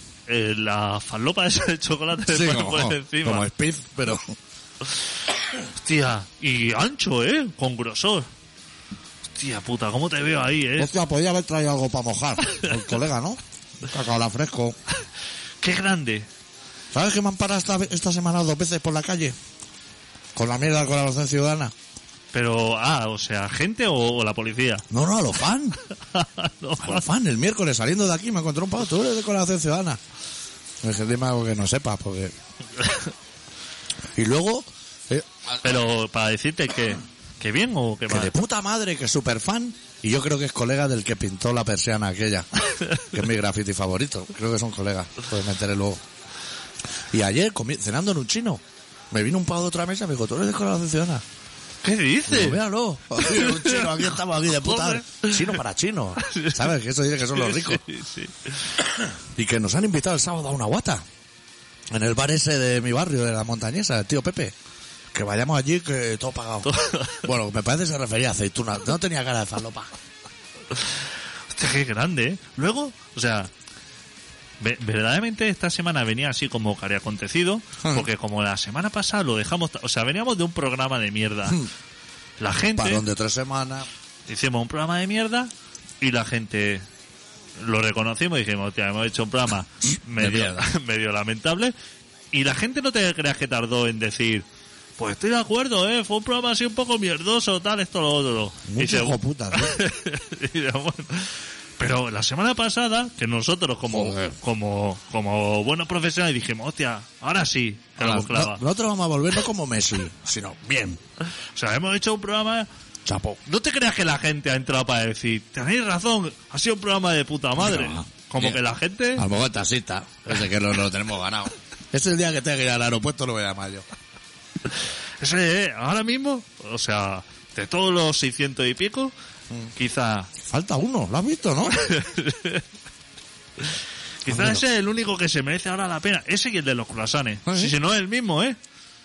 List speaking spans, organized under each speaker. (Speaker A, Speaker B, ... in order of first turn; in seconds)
Speaker A: 0.3-3.5, 5.8-8.3, 9.3-10.9, 15.6-16.3, 22.3-24.9, 26.1-27.0, 35.6-38.3, 51.8-52.6, 53.1-54.0, 54.6-55.4, 56.2-56.7, 57.3-58.7, 66.7-67.2, 71.5-73.5, 74.6-81.6, 82.4-83.0, 84.3-86.8, 87.6-91.7, 92.3-94.4, 95.0-108.6, 111.5-112.7, 113.4-119.2, 125.2-129.1, 129.8-130.3, 131.8-132.6, 134.2-138.6
Speaker B: 2.3-4.3, 10.8-14.8, 16.9-19.4, 20.3-21.7, 24.9-25.8, 26.8-30.0, 30.8-32.3, 34.1-35.3, 38.1-42.5, 43.0-46.0, 47.1-51.2, 52.3-57.8, 59.3-61.0, 61.9-64.5, 65.1-66.7, 67.2-69.9, 77.8-78.1, 82.7-83.9, 90.1-90.7, 98.7-99.8, 103.9-104.3, 108.0-111.0, 113.0-113.4, 117.6-118.6, 119.2-123.8, 130.4-131.8, 134.2-134.6, 137.4-137.8